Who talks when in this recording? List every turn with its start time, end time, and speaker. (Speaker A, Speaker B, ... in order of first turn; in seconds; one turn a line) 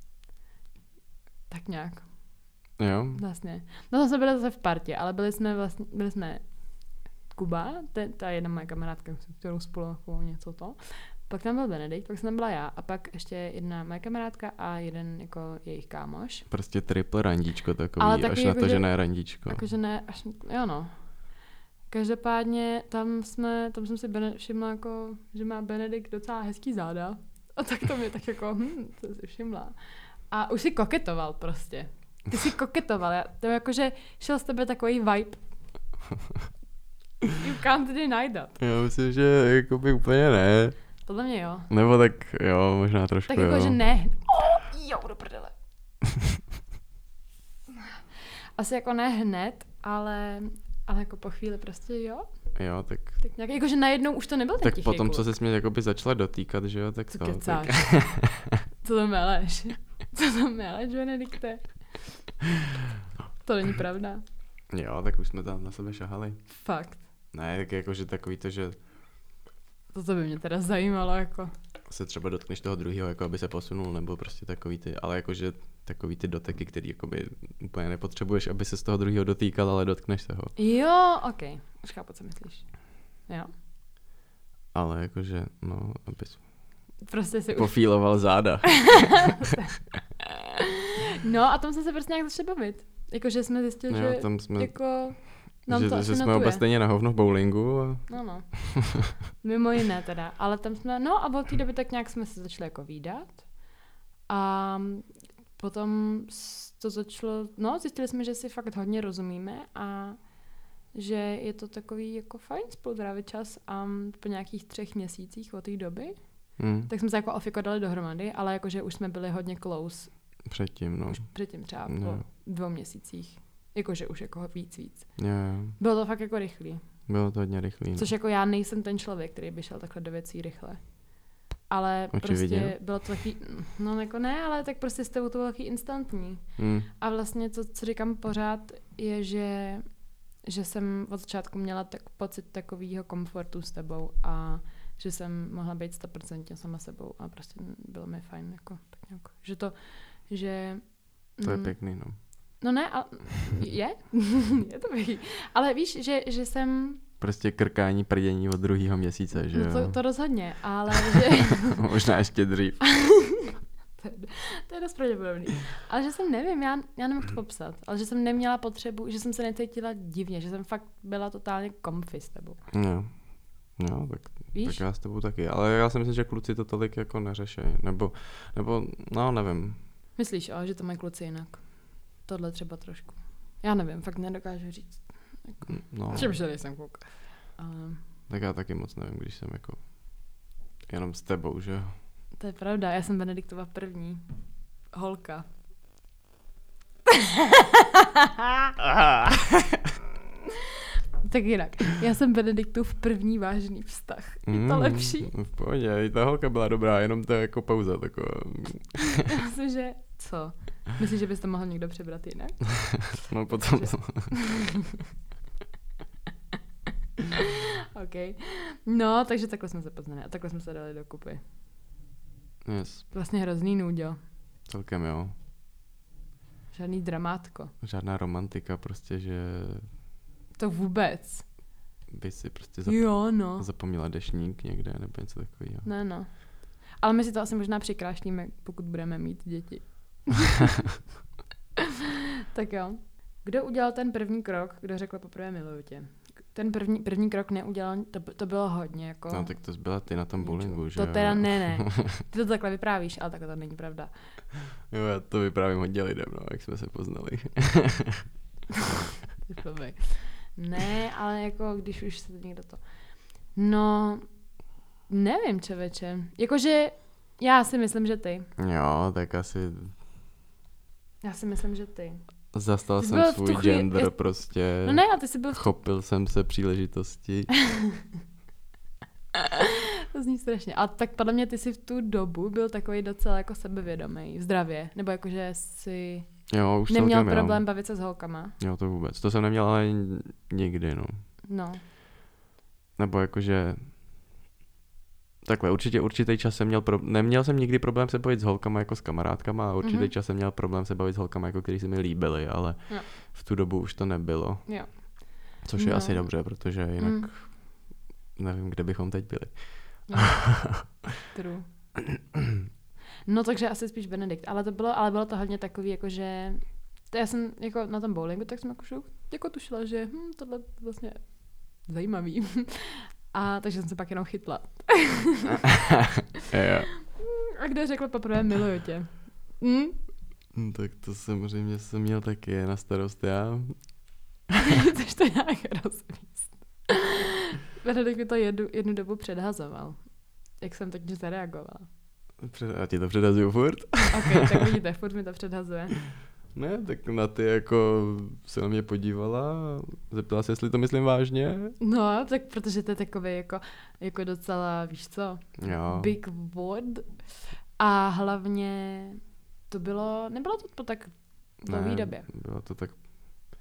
Speaker A: 1.5-16.5
Speaker B: 2.8-3.2
Speaker B: 16.5-19.6
Speaker A: 18.0-35.4
Speaker A: 37.4-38.6
Speaker B: 38.6-41.1
Speaker A: 41.0-41.7
Speaker B: 41.7-43.8
Speaker A: 43.3-45.5
Speaker A: 48.5-55.3
Speaker B: 52.5-53.2
Speaker B: 54.6-58.3
Speaker A: 57.1-62.3
Speaker A: 63.4-64.2
Speaker B: 64.7-68.8
Speaker A: 66.5-67.1
Speaker A: 69.9-71.5
Speaker B: 71.9-80.5
Speaker A: 80.5-83.5
Speaker B: 84.7-87.0
Speaker A: 87.0-88.5
Speaker B: 87.5-89.4
Speaker A: 91.2-96.6
Speaker B: 93.9-98.6
Speaker A: 98.1-120.5
Speaker B: 116.6-116.9
Speaker B: 120.4-122.2
Speaker A: 121.1-127.4
Speaker B: 125.2-125.8
Speaker B: 127.1-128.1
Speaker A: 127.9-157.0
Speaker B: 132.1-132.8
Speaker B: 136.6-136.9
Speaker B: 151.4-152.5
Speaker B: 157.2-160.3
Speaker A: 159.5-161.8
Speaker B: 161.6-163.3
Speaker A: 163.9-172.6
Speaker B: 172.7-179.8
Speaker A: 174.5-174.8
Speaker A: 180.2-188.1
Speaker B: 185.7-186.6
Speaker B: 188.3-192.0
Speaker A: 192.4-195.4
Speaker A: 201.2-205.3
Speaker B: 204.4-209.2
Speaker A: 209.5-214.4
Speaker B: 213.2-214.4
Speaker A: 217.9-221.4
Speaker B: 222.6-223.1
Speaker A: 223.1-224.2
Speaker B: 224.6-225.3
Speaker A: 226.7-227.7
Speaker B: 227.8-229.9
Speaker A: 230.6-231.5
Speaker B: 232.1-235.9
Speaker A: 232.8-233.7
Speaker A: 235.8-240.7
Speaker A: 242.5-254.5
Speaker B: 249.3-252.0
Speaker B: 254.9-258.2
Speaker A: 259.5-264.5
Speaker A: 265.1-268.5
Speaker B: 268.6-269.9
Speaker A: 271.2-275.8
Speaker B: 272.5-277.6
Speaker A: 280.1-288.6
Speaker B: 286.5-291.2
Speaker A: 291.4-291.8
Speaker B: 292.9-293.9
Speaker B: 295.4-305.1
Speaker A: 299.8-300.1
Speaker A: 304.6-307.3
Speaker B: 305.6-310.8
Speaker A: 310.1-312.1
Speaker A: 313.2-325.7
Speaker B: 326.5-326.9
Speaker A: 327.2-330.0
Speaker B: 330.5-334.1
Speaker A: 334.9-336.9
Speaker A: 337.8-341.9
Speaker B: 342.4-344.5
Speaker A: 344.1-346.1
Speaker B: 346.5-351.8
Speaker A: 351.8-362.3
Speaker B: 355.6-356.2
Speaker B: 361.6-363.0